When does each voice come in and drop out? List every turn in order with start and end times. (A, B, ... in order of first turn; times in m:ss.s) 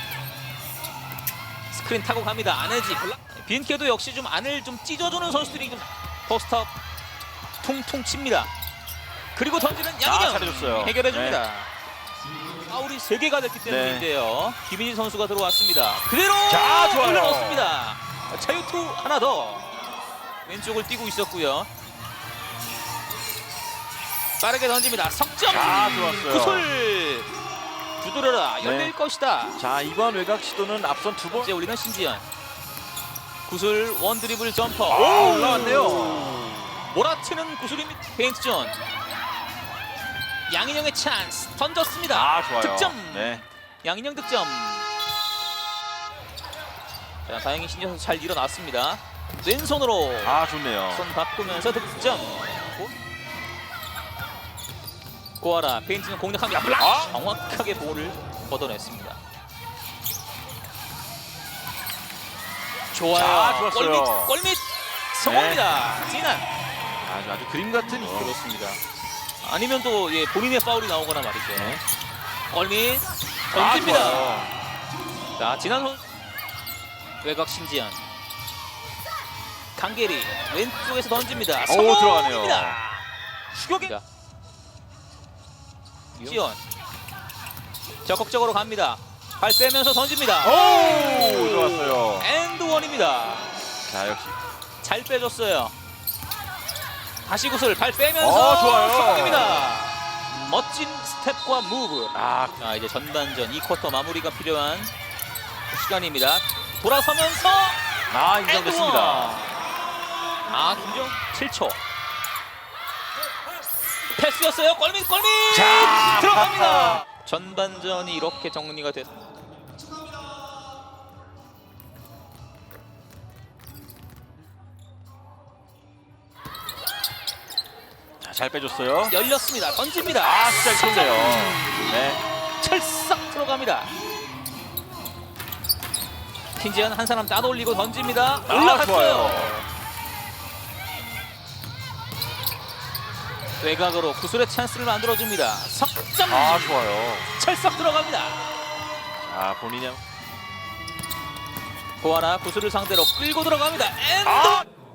0:01.7-0:06.7 A
0:07.6-0:08.5 A
0:09.4-0:11.7 A
0:10.0-0:11.4 B
0:12.7-0:19.7 A
0:13.6-0:14.1 B
0:16.5-0:17.8 B
0:20.4-0:21.7 A
0:24.4-0:27.3 A
0:25.5-0:26.7 B
0:28.0-0:29.6 A
0:28.6-0:29.0 B
0:29.5-0:31.5 B
0:31.3-0:32.2 A
0:33.5-0:38.8 A
0:34.9-0:36.6 B
0:40.5-0:44.9 A
0:42.1-0:43.4 B
0:47.3-0:52.9 A
0:50.2-0:51.1 B
0:55.4-0:59.2 A
0:56.8-0:57.1 B
1:02.9-1:06.5 A
1:03.1-1:04.3 B
1:05.2-1:05.6 B
1:07.0-1:08.4 B
1:08.0-1:08.8 A
1:09.4-1:11.8 A
1:12.5-1:14.5 A
1:13.5-1:14.5 B
1:15.4-1:16.0 A
1:17.2-1:18.0 A
1:19.8-1:24.0 A
1:21.6-1:22.8 B
1:26.1-1:26.6 A
1:28.0-1:33.5 A
1:30.4-1:32.3 B
1:33.9-1:34.4 B
1:34.8-1:35.7 A
1:37.2-1:44.9 A
1:38.2-1:39.7 B
1:42.1-1:42.6 B
1:45.7-1:47.8 A
1:48.1-1:49.5 B
1:48.3-1:49.5 A
1:50.5-1:51.8 A
1:54.2-1:59.2 A
1:55.5-1:57.0 B
2:08.2-2:09.2 B
2:09.1-2:11.8 A
2:10.2-2:12.2 B
2:12.6-2:14.0 A
2:16.6-2:19.7 A
2:18.5-2:19.6 B
2:23.6-2:26.8 A
2:26.2-2:27.3 B
2:27.4-2:28.5 A
2:29.2-2:30.0 B
2:32.0-2:34.6 A
2:34.3-2:34.6 B